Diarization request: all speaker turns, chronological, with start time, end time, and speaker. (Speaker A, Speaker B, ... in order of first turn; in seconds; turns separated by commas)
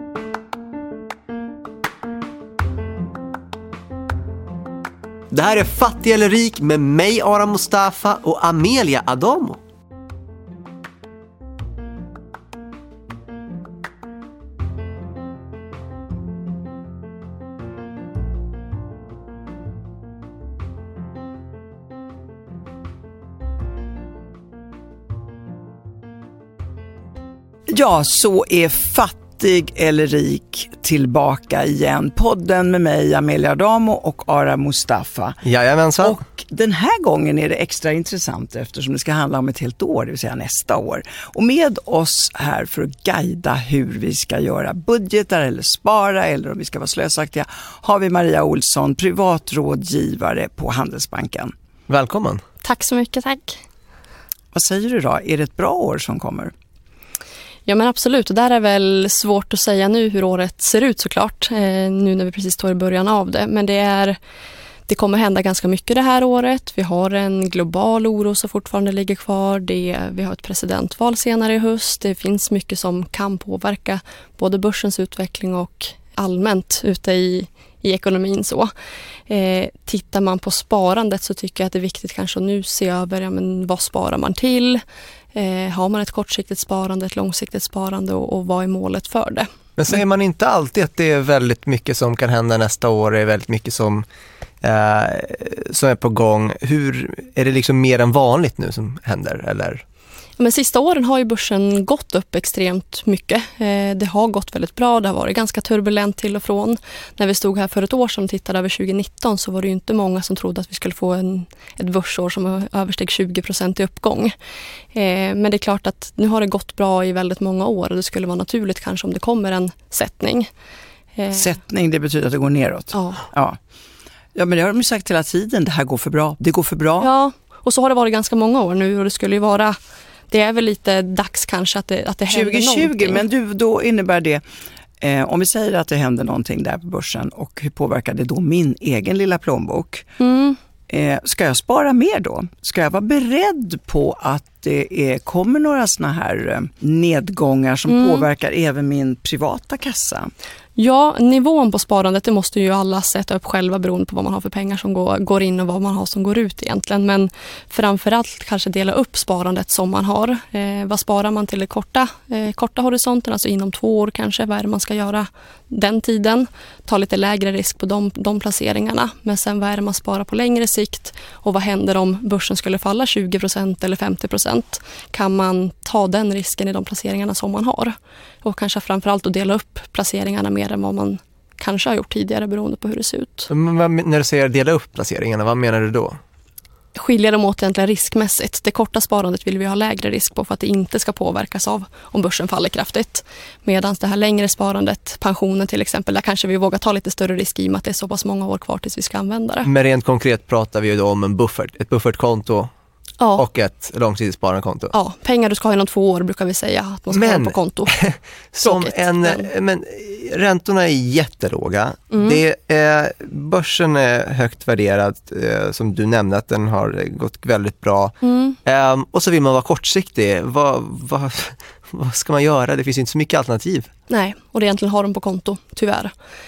Speaker A: 5.3-9.6, Speaker B: 27.7-35.4, Speaker A: 35.4-36.2, Speaker B: 36.0-51.5, Speaker A: 51.9-52.4, Speaker C: 52.6-53.6, Speaker B: 54.5-56.5, Speaker C: 57.6-64.2, Speaker C: 64.9-78.7, Speaker C: 79.3-84.8, Speaker C: 85.3-89.5, Speaker A: 89.8-94.0, Speaker A: 94.6-99.8, Speaker C: 100.4-114.3, Speaker C: 114.9-120.5, Speaker C: 121.1-121.5, Speaker B: 121.3-123.6, Speaker C: 122.9-123.2, Speaker B: 124.3-127.1, Speaker C: 127.0-129.8, Speaker C: 130.3-133.2, Speaker B: 132.3-134.4, Speaker B: 135.0-140.1, Speaker C: 140.2-140.6, Speaker B: 140.9-150.3, Speaker C: 147.9-148.2, Speaker C: 150.8-183.5, Speaker A: 183.5-186.2, Speaker C: 186.9-199.7, Speaker A: 199.6-202.7, Speaker A: 203.3-204.9, Speaker C: 204.9-207.9, Speaker A: 207.1-223.9, Speaker C: 208.6-209.5, Speaker C: 212.1-212.4, Speaker C: 218.2-218.6, Speaker C: 224.1-226.1